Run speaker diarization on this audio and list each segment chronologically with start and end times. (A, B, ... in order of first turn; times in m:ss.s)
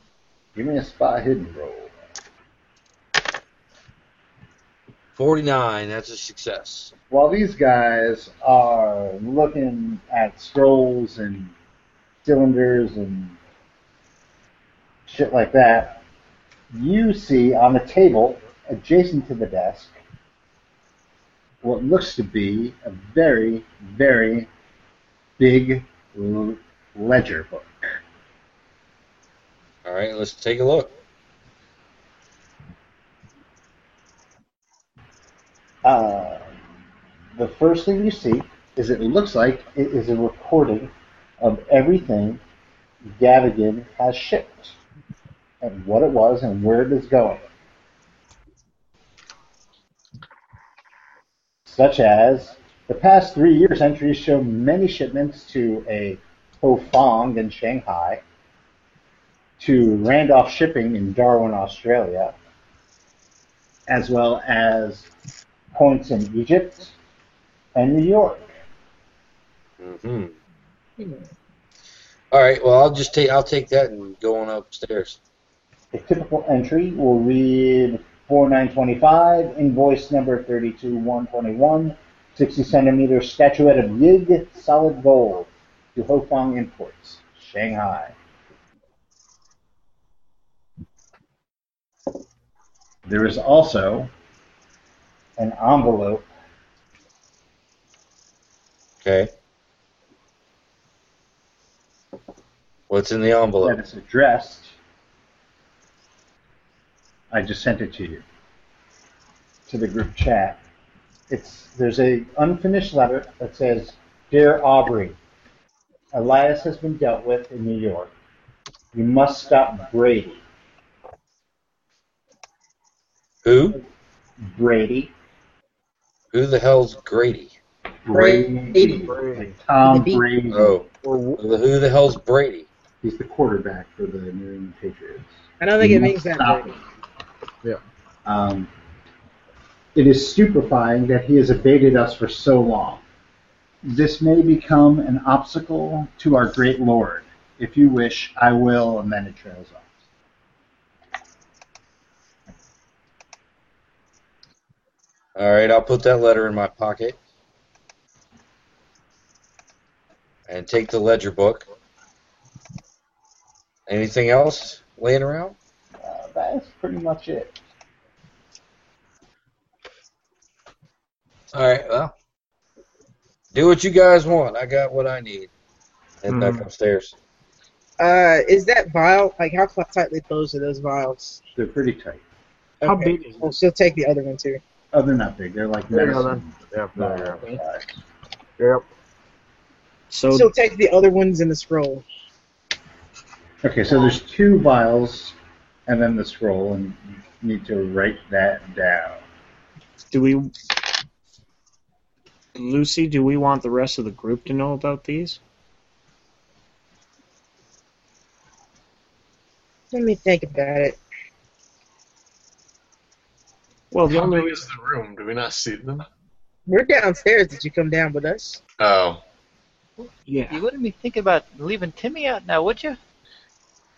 0:00.5-0:01.9 A
0:05.2-0:06.9 B
0:07.1-0:11.5 A
0:12.2-0:13.4 A
0:15.1-0:16.0 A
0:16.7-0:20.0 A
0:21.6-0:24.5 A
0:25.4-0:27.9 A
0:29.8-0:30.9 B
0:35.8-0:36.5 A
0:37.4-0:42.4 A
0:43.1-0:44.8 A
0:45.6-0:47.5 A
0:51.6-0:58.2 A
0:59.6-1:02.4 A
1:03.9-1:05.1 A
1:05.7-1:06.9 A
1:07.7-1:08.5 A
1:09.8-1:10.3 B
1:12.3-1:15.2 B
1:15.9-1:28.1 A
1:33.0-1:34.1 A
1:35.4-1:36.3 A
1:39.0-1:39.3 B
1:42.9-1:43.8 B
1:43.6-1:44.7 A
1:47.3-1:48.2 A
1:49.7-1:50.6 A
1:51.3-1:55.2 A
1:56.1-1:58.1 A
1:58.9-2:00.4 A
2:03.4-2:03.8 B
2:04.4-2:05.1 A
2:06.3-2:07.5 B
2:08.0-2:10.8 A
2:08.1-2:09.0 C
2:09.0-2:09.5 D
2:09.8-2:10.2 C
2:10.5-2:10.9 B
2:11.0-2:11.4 D
2:11.4-2:12.7 B
2:13.0-2:16.8 A
2:15.6-2:16.7 C
2:18.2-2:18.7 A
2:19.9-2:23.0 A
2:23.8-2:29.9 A
2:35.4-2:37.2 B
2:40.5-2:41.6 B
2:43.9-2:45.5 B
2:46.0-2:47.6 A
2:51.5-2:52.1 B
2:53.5-2:55.5 B
2:56.2-2:57.1 B
2:56.3-2:56.7 E
2:58.0-3:01.4 C
3:01.6-3:02.2 A
3:02.8-3:04.6 C
3:02.8-3:03.5 E
3:04.9-3:08.0 A
3:05.9-3:07.5 D
3:06.1-3:06.4 E
3:08.6-3:08.8 D
3:10.1-3:10.5 E
3:10.3-3:12.0 C
3:13.6-3:15.3 A
3:15.9-3:19.2 A
3:20.1-3:20.5 E
3:22.5-3:25.4 E
3:29.9-3:31.0 C
3:33.9-3:34.6 E
3:34.1-3:36.0 F
3:36.7-3:38.6 C
3:38.8-3:39.2 F
3:40.3-3:40.6 E
3:40.5-3:43.0 G